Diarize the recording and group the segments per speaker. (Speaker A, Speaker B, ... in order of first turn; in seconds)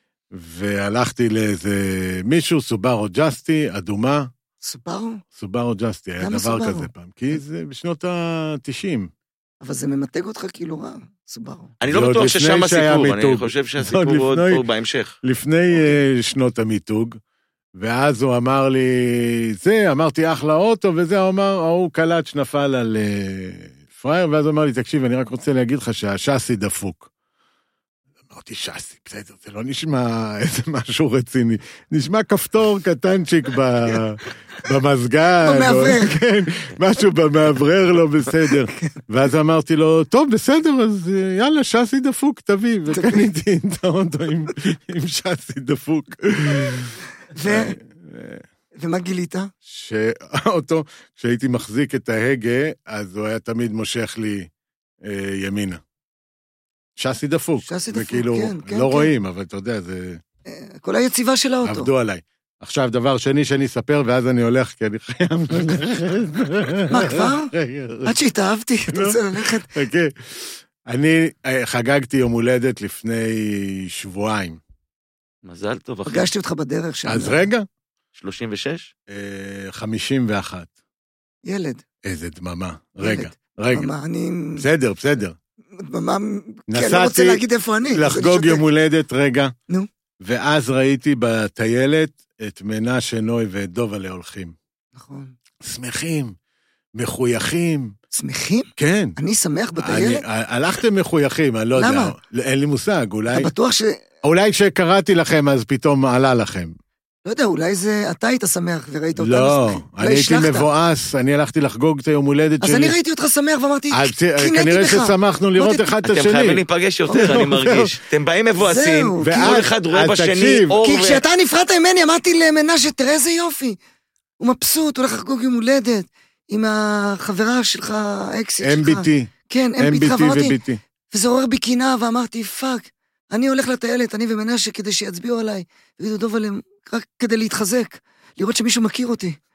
Speaker A: 0.3-4.3, 5.3-9.1, 11.9-14.6, 15.2-17.2, 17.8-27.1, 28.3-48.4, 49.6-54.5, 55.0-55.8, 57.0-60.2, 61.6-68.1, 68.9-74.6, 77.1-77.7, 79.1-80.7, 82.0-83.9, 84.6-85.3, 86.7-87.4, 87.9-89.5, 90.2-94.5, 95.6-96.3, 96.9-97.9, 98.8-99.2, 99.8-103.5, 104.2-106.7, 109.2-112.9, 113.9-118.0, 119.2-120.8, 128.6-130.8
Speaker B: 4.6-5.2, 6.2-6.9, 9.6-11.7, 35.4-36.2, 42.9-43.3, 47.4-47.8, 48.8-49.5, 57.6-59.1, 60.5-61.9, 66.9-67.5, 68.0-69.7, 76.0-77.5, 81.5-81.8, 83.0-84.7, 85.8-88.6, 94.9-95.3, 98.1-100.2, 101.7-102.1, 103.3-104.0, 107.2-110.7, 112.6-115.9, 118.6-119.6, 120.8-123.8, 124.4-130.6, 131.1-139.4
Speaker C: 11.8-15.2, 75.4-76.3, 78.1-78.9, 116.0-121.2